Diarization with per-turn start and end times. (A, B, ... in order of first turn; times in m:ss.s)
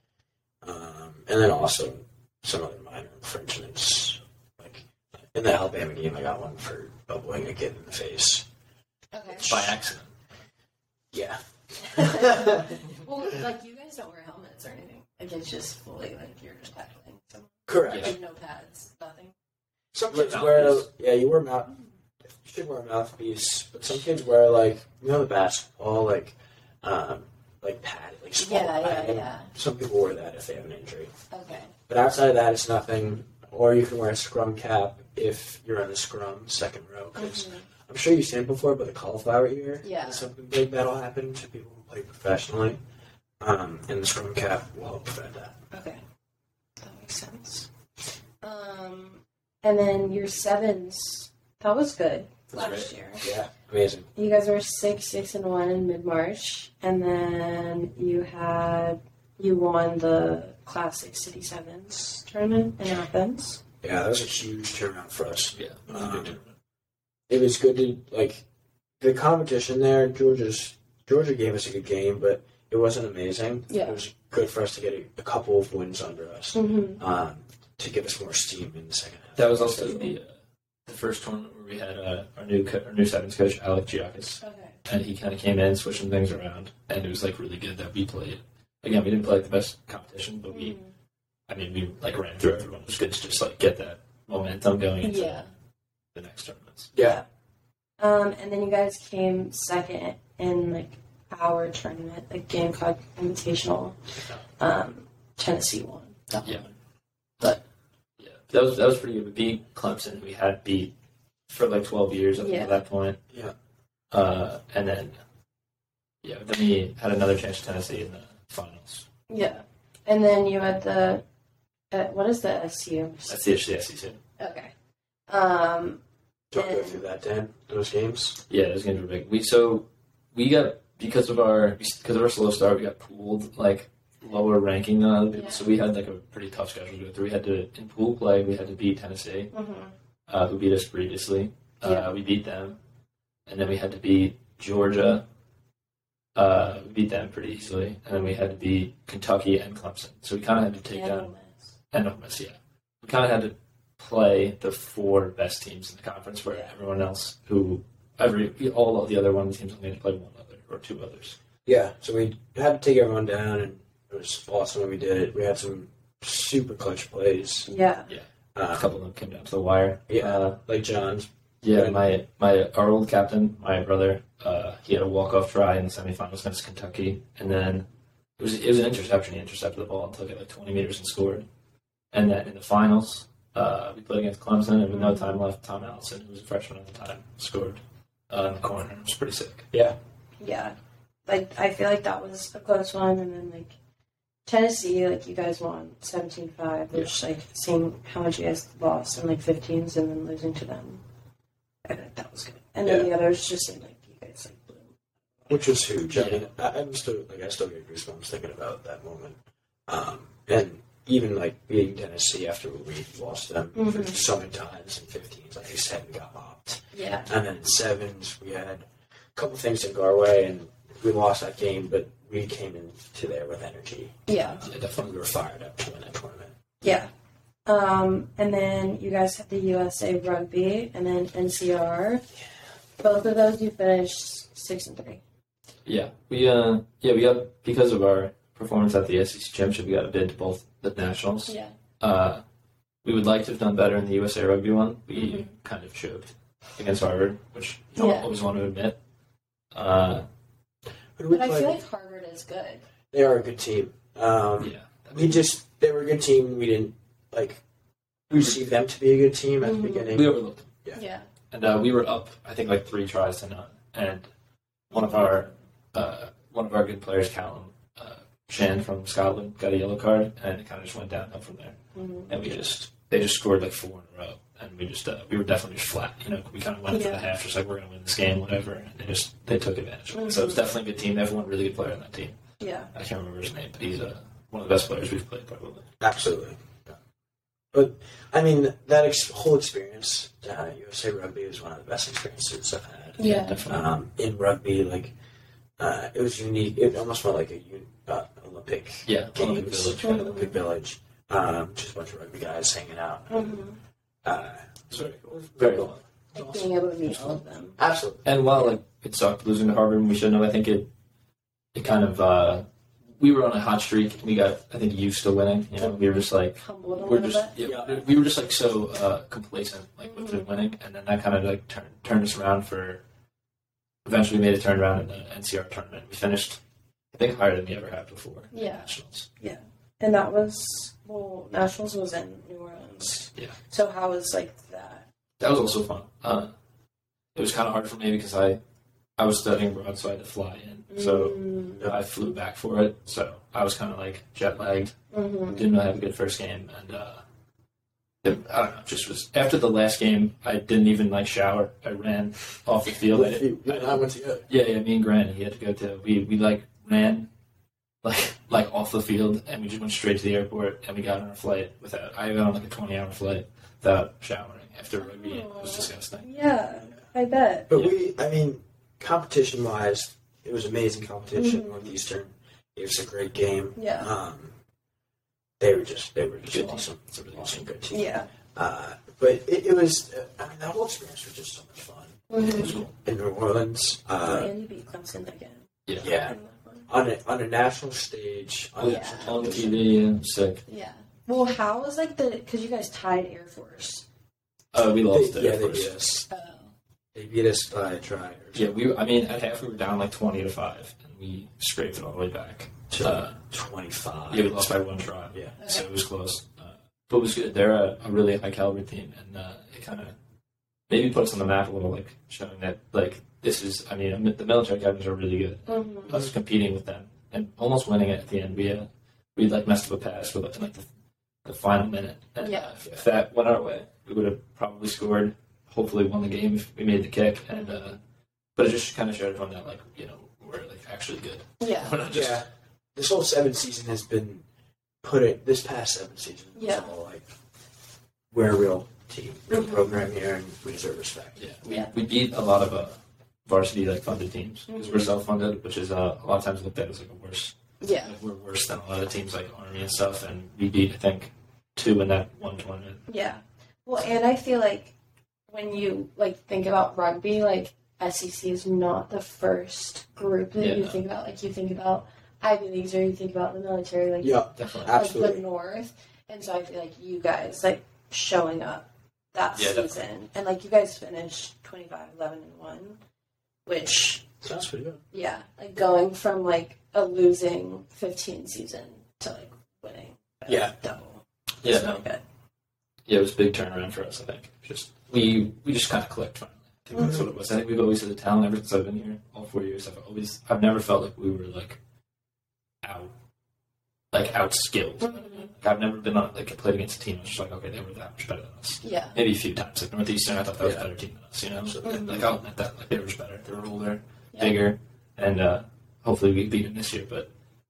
0:00.6-0:08.4 A
0:09.1-0:09.7 B
0:09.4-0:09.7 A
0:09.4-0:10.1 C
0:11.1-0:12.7 A
0:11.8-0:19.3 B
0:17.7-0:18.1 A
0:19.9-0:21.8 A
0:20.1-0:20.8 C
0:22.4-0:31.1 A
0:28.4-0:29.5 B
0:31.3-0:31.7 B
0:31.9-0:42.8 A
0:37.2-0:37.6 B
0:39.8-0:40.2 B
0:43.4-0:45.6 A
0:45.7-0:46.0 B
0:46.8-0:47.7 B
0:48.4-0:53.2 B
0:52.5-0:52.9 C
0:53.2-0:54.1 A
0:54.2-1:03.6 B
1:03.8-1:06.4 A
1:05.5-1:06.5 C
1:07.3-1:08.4 A
1:09.0-1:20.1 A
1:13.7-1:14.0 B
1:16.5-1:17.0 B
1:19.4-1:20.3 C
1:20.9-1:30.8 C
1:24.4-1:24.8 B
1:30.5-1:30.9 B
1:31.5-1:35.4 C
1:35.0-1:35.5 B
1:36.1-1:36.9 C
1:36.9-1:37.2 A
1:38.0-1:44.0 B
1:44.6-1:46.6 B
1:48.2-1:50.9 C
1:51.5-1:53.2 C
1:52.4-1:52.8 B
1:54.1-1:55.2 C
1:56.2-1:59.1 C
1:59.3-2:01.2 B
2:01.9-2:03.4 B
2:03.3-2:04.2 C
2:04.4-2:04.7 B
2:05.3-2:06.0 B
2:06.5-2:08.4 A
2:06.6-2:07.0 B
2:08.5-2:19.5 C
2:15.3-2:15.6 B
2:19.5-2:19.9 B
2:20.3-2:22.8 C
2:21.8-2:22.1 B
2:23.5-2:25.2 C
2:26.3-2:31.3 C
2:30.9-2:31.7 B
2:31.9-2:41.4 C
2:41.6-2:47.7 A
2:47.7-2:48.1 B
2:48.1-2:50.6 C
2:48.5-2:48.9 A
2:50.1-2:52.0 A
2:51.6-2:57.9 C
2:58.4-3:01.5 C
3:02.1-3:09.7 C
3:04.9-3:05.4 B
3:09.7-3:10.0 A
3:10.4-3:10.8 B
3:11.3-3:13.7 B
3:14.4-3:21.0 B
3:21.8-3:25.5 B
3:25.5-3:46.6 A
3:26.1-3:26.4 C
3:33.7-3:34.2 B
3:36.9-3:37.3 B
3:44.3-3:44.6 B
3:44.6-3:45.2 C
3:46.8-3:47.1 B
3:47.6-3:52.2 B
3:53.0-3:55.2 B
3:55.8-4:02.4 C
4:01.5-4:01.7 B
4:03.0-4:09.0 C
4:05.1-4:05.5 B
4:08.0-4:08.3 B
4:09.7-4:10.2 C
4:11.2-4:11.8 A
4:11.3-4:12.8 B
4:13.1-4:17.6 A
4:14.6-4:15.4 C
4:18.3-4:21.0 A
4:19.6-4:20.1 B
4:20.1-4:20.7 C
4:20.9-4:21.3 B
4:21.5-4:24.3 C
4:24.9-4:31.8 C
4:24.9-4:25.3 B
4:31.9-4:32.4 B
4:32.3-4:42.4 C
4:36.9-4:37.3 B
4:40.1-4:40.6 B
4:42.6-4:42.9 B
4:42.9-4:45.9 C
4:46.0-4:47.0 A
4:47.7-4:55.1 A
4:53.2-4:53.6 B
4:53.2-4:53.8 C
4:55.8-5:03.6 A
4:59.1-5:00.4 C
5:00.0-5:00.5 B
5:03.3-5:03.8 B
5:04.2-5:08.3 A
5:04.9-5:06.0 C
5:06.3-5:07.8 B
5:08.2-5:10.9 C
5:11.7-5:12.6 C
5:13.2-5:23.0 C
5:15.8-5:17.5 B
5:17.6-5:18.1 A
5:20.1-5:20.5 B
5:24.0-5:26.6 C
5:27.1-5:29.3 C
5:28.5-5:28.9 B
5:29.4-5:35.1 B
5:35.4-5:36.5 C
5:37.3-5:38.6 C
5:39.2-5:44.9 C
5:40.9-5:41.9 B
5:45.1-5:45.6 B
5:45.5-5:47.2 C
5:48.2-5:57.3 C
5:53.0-5:54.5 A
5:58.0-6:06.3 C
6:05.0-6:07.7 B
6:07.7-6:14.5 A
6:11.4-6:11.9 B
6:13.8-6:14.1 B
6:15.6-6:24.5 A
6:16.5-6:17.7 C
6:17.9-6:18.3 B
6:22.3-6:22.7 B
6:22.4-6:22.9 C
6:24.2-6:26.9 B
6:25.9-6:26.2 C
6:26.0-6:26.4 A
6:26.9-6:29.9 A
6:28.8-6:30.6 C
6:28.8-6:29.4 B
6:30.7-6:34.0 B
6:34.7-6:36.0 C
6:35.1-6:36.3 A
6:36.3-6:36.7 B
6:37.1-6:38.7 A
6:38.5-6:43.4 C
6:42.9-6:44.8 A
6:44.3-6:50.1 C
6:45.6-6:45.8 B
6:50.9-7:00.9 C
6:55.7-6:56.2 B
7:01.4-7:08.0 C
7:02.4-7:02.7 B
7:07.5-7:07.9 B
7:08.6-7:12.4 C
7:11.6-7:12.0 B
7:12.1-7:14.4 A
7:15.0-7:17.3 A
7:16.5-7:16.9 B
7:18.3-7:21.4 A
7:19.5-7:19.9 B
7:21.4-7:33.1 C
7:21.6-7:21.9 B
7:24.7-7:25.1 B
7:27.8-7:28.2 B
7:33.1-7:34.9 B
7:35.5-7:53.0 B
7:40.6-7:41.0 C
7:44.2-7:45.4 A
7:44.6-7:45.0 C
7:49.6-7:50.0 C
7:53.6-7:54.3 B
7:54.4-7:55.0 A
7:55.1-8:02.2 B
8:00.4-8:00.7 A
8:01.6-8:02.0 C
8:03.0-8:11.8 C
8:07.0-8:07.2 A
8:12.8-8:13.1 C
8:14.1-8:27.3 C
8:15.0-8:15.5 B
8:18.8-8:19.2 B
8:21.6-8:22.2 A
8:21.8-8:22.2 B
8:24.3-8:24.6 B